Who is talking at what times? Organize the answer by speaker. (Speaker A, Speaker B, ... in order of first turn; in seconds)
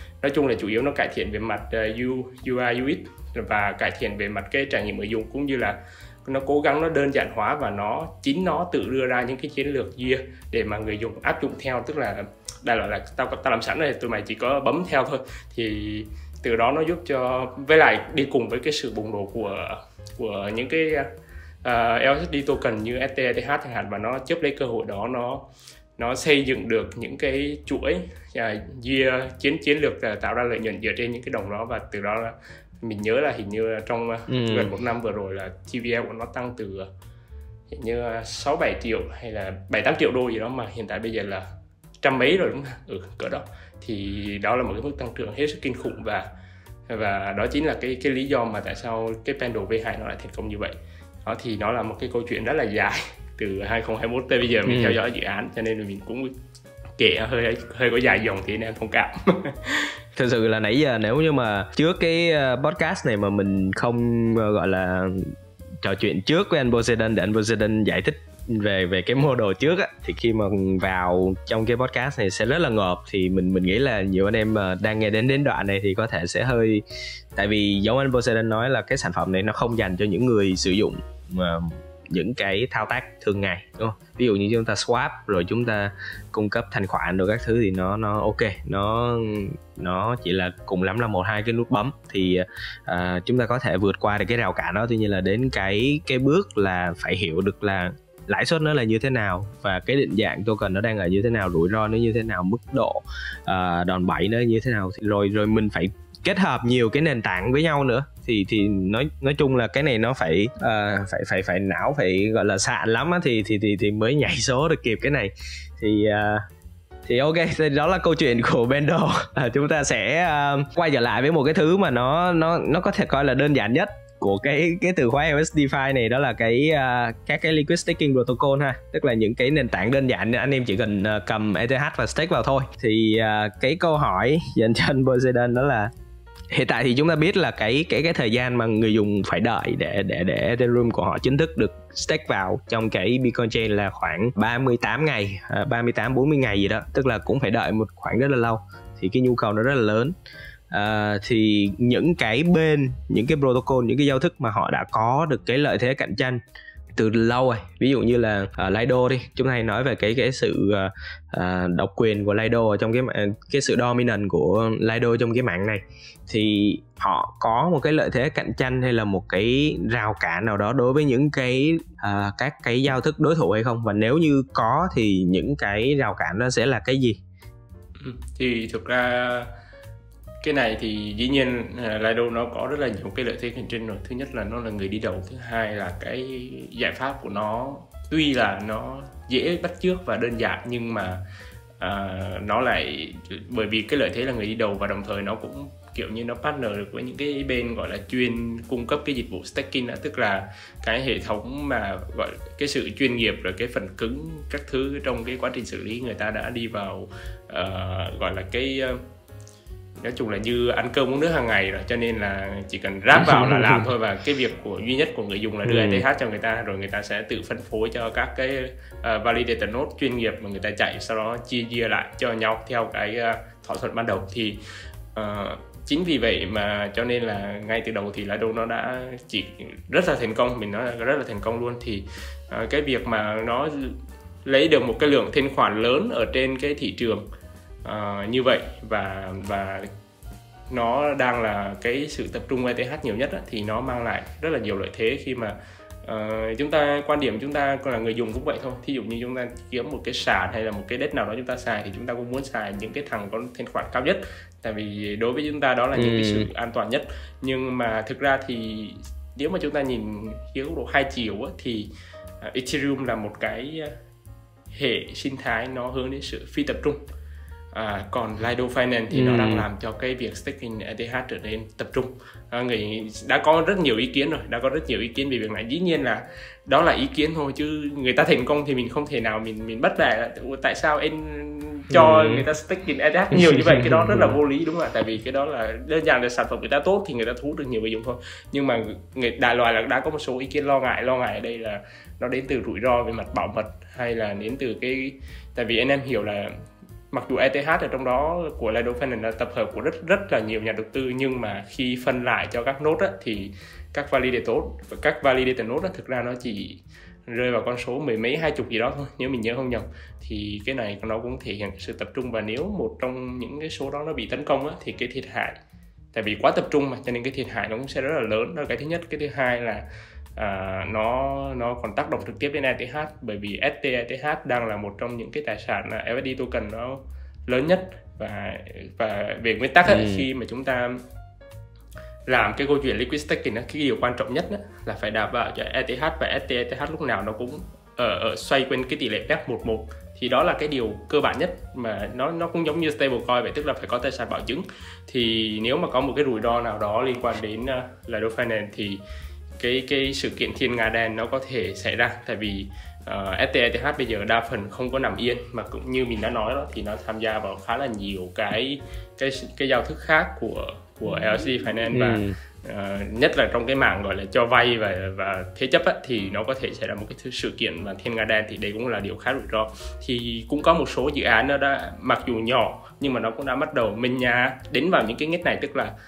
Speaker A: 0.2-21.1, 21.6-25.4, 26.0-36.9, 37.7-41.4, 42.0-46.3, 46.9-56.3, 57.0-59.9, 178.0-179.5, 180.4-191.2, 191.8-209.0, 210.0-224.6, 225.1-233.9, 234.4-237.2, 237.8-239.9, 240.7-261.9, 262.4-263.9, 264.7-267.0, 267.7-296.5, 297.1-315.6, 316.1-319.8, 320.4-331.0, 332.3-349.0, 349.6-375.9
Speaker B: 34.3-34.7, 54.6-55.0, 60.1-76.8, 77.3-116.4, 117.0-135.9, 136.5-150.1, 150.7-156.4, 156.9-177.2, 213.2-213.8, 215.6-216.0, 255.9-256.5, 269.1-269.7, 281.9-282.4, 283.6-284.3, 329.9-330.2, 361.9-362.3